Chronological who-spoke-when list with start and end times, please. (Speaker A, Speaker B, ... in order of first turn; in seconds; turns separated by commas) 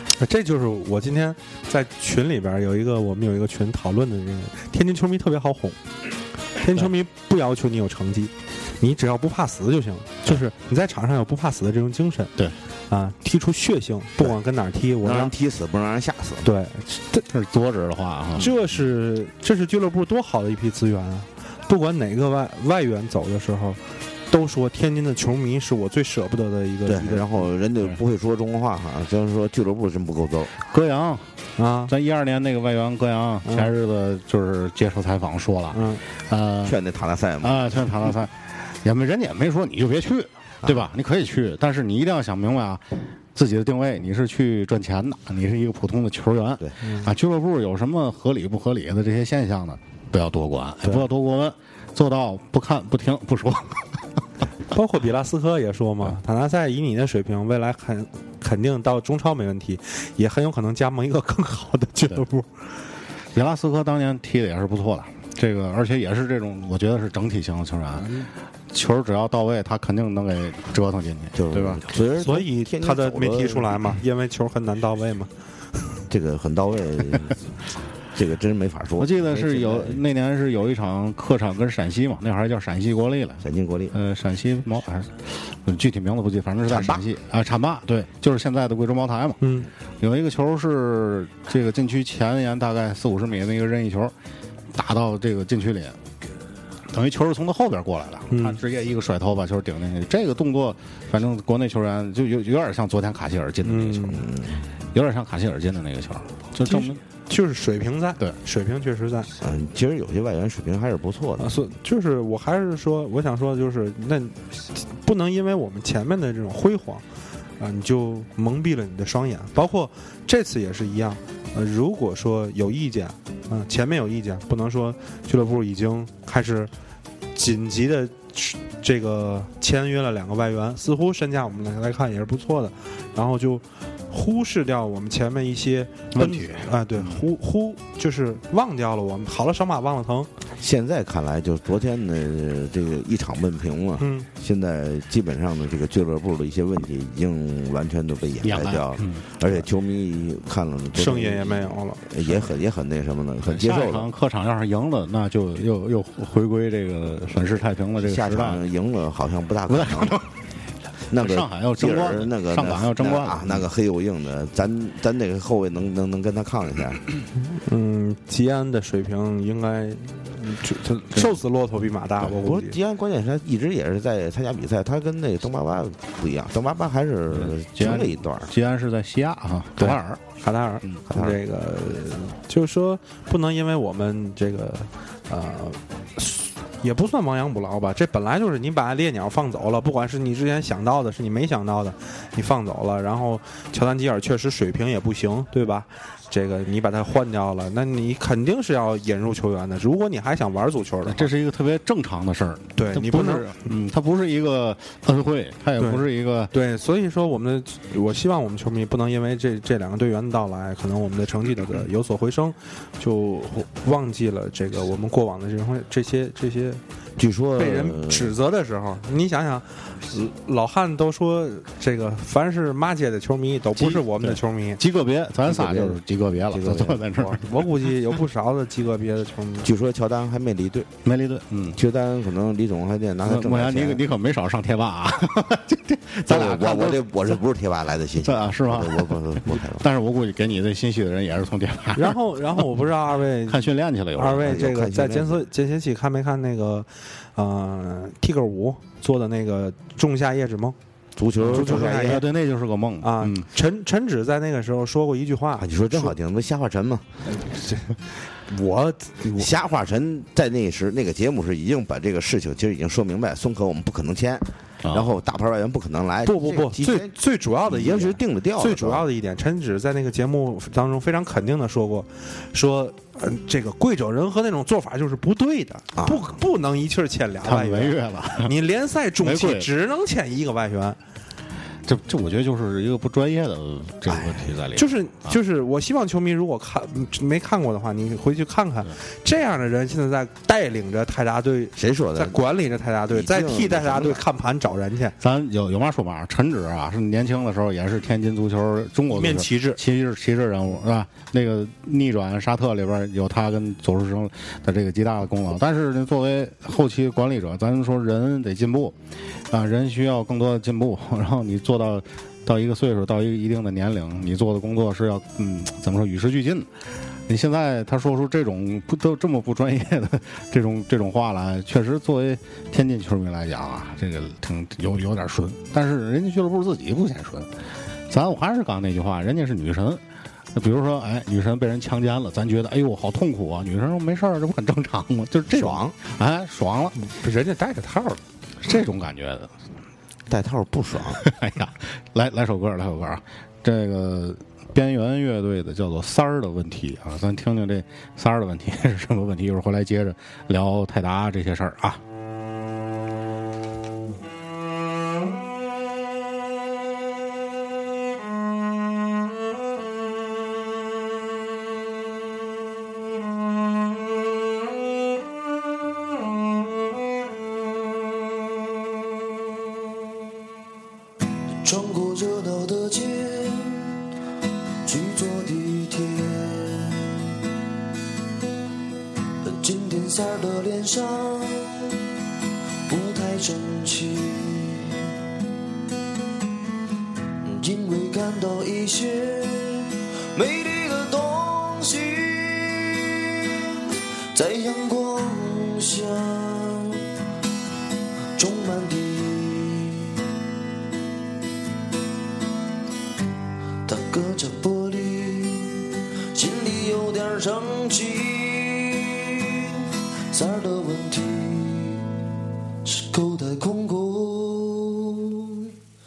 Speaker A: 0.1-5.8, Speaker A: 6.6-12.3, Speaker A: 12.9-15.3, Speaker B: 15.0-16.5, Speaker A: 16.4-17.2, Speaker C: 17.3-18.5, Speaker A: 18.4-27.4, Speaker B: 26.9-30.5, Speaker C: 30.7-31.3, Speaker A: 31.6-31.9, Speaker C: 31.9-36.8, Speaker A: 33.4-33.7, Speaker A: 35.7-36.0, Speaker B: 36.6-38.1, Speaker C: 37.4-42.8, Speaker B: 40.6-40.9, Speaker C: 43.3-54.2, Speaker A: 46.8-47.1, Speaker A: 54.7-62.5, Speaker C: 63.3-71.8, Speaker B: 71.3-73.8, Speaker A: 72.2-75.3, Speaker B: 76.1-77.5, Speaker B: 78.1-80.0, Speaker C: 79.0-89.4, Speaker B: 83.4-83.9, Speaker B: 86.7-87.0, Speaker A: 89.4-89.7, Speaker C: 90.0-94.1, Speaker C: 94.7-96.0, Speaker C: 96.9-104.2, Speaker A: 98.3-98.6, Speaker A: 103.6-104.2, Speaker B: 104.1-104.6, Speaker C: 104.9-107.0, Speaker A: 106.7-109.3, Speaker B: 109.4-111.6, Speaker A: 111.4-117.0, Speaker A: 117.6-126.7, Speaker A: 127.3-140.3, Speaker C: 136.1-137.2, Speaker B: 140.6-154.1, Speaker A: 144.0-144.3, Speaker C: 148.4-149.6, Speaker A: 150.9-152.1, Speaker C: 153.4-158.6, Speaker B: 158.0-160.2, Speaker C: 159.7-160.3, Speaker B: 161.1-167.0, Speaker C: 161.1-163.7, Speaker A: 167.4-172.8, Speaker B: 172.2-178.5, Speaker C: 177.3-180.2, Speaker A: 179.8-201.3, Speaker B: 181.1-181.4, Speaker C: 201.0-206.5, Speaker A: 202.8-203.7, Speaker A: 205.8-216.8, Speaker B: 217.2-218.3, Speaker A: 217.6-224.8, Speaker C: 223.8-227.4, Speaker B: 225.4-226.0, Speaker B: 226.5-227.2, Speaker A: 227.2-229.7, Speaker B: 229.6-230.9, Speaker C: 231.0-231.8, Speaker B: 231.8-234.0, Speaker C: 233.2-237.1, Speaker B: 236.3-239.8, Speaker C: 238.2-242.6, Speaker A: 241.9-250.8, Speaker C: 243.5-244.6, Speaker B: 244.4-245.4, Speaker B: 251.2-252.2, Speaker C: 251.4-253.5, Speaker A: 251.4-252.2, Speaker A: 253.0-256.1, Speaker B: 255.6-257.1, Speaker A: 257.2-259.5, Speaker B: 259.3-267.1, Speaker C: 264.8-265.1, Speaker A: 266.2-281.0, Speaker B: 267.7-269.0, Speaker B: 275.9-276.3, Speaker C: 277.4-278.5, Speaker C: 279.2-279.7, Speaker C: 281.8-285.4, Speaker B: 284.1-284.6, Speaker A: 284.7-295.1, Speaker B: 291.8-292.4, Speaker B: 293.1-294.2, Speaker C: 295.2-308.9, Speaker A: 299.1-299.8, Speaker C: 309.5-316.7, Speaker C: 317.3-327.5, Speaker C: 328.1-330.0, Speaker C: 330.5-336.9, Speaker B: 335.5-335.9, Speaker A: 336.9-338.2, Speaker C: 338.6-339.5, Speaker B: 340.3-341.2, Speaker C: 341.2-352.0, Speaker D: 371.6-374.0, Speaker D: 374.8-377.2, Speaker D: 379.4-381.9, Speaker D: 382.9-385.1, Speaker D: 387.4-393.3, Speaker D: 394.3-397.0, Speaker D: 398.4-400.2, Speaker D: 403.9-412.2, Speaker D: 412.8-415.7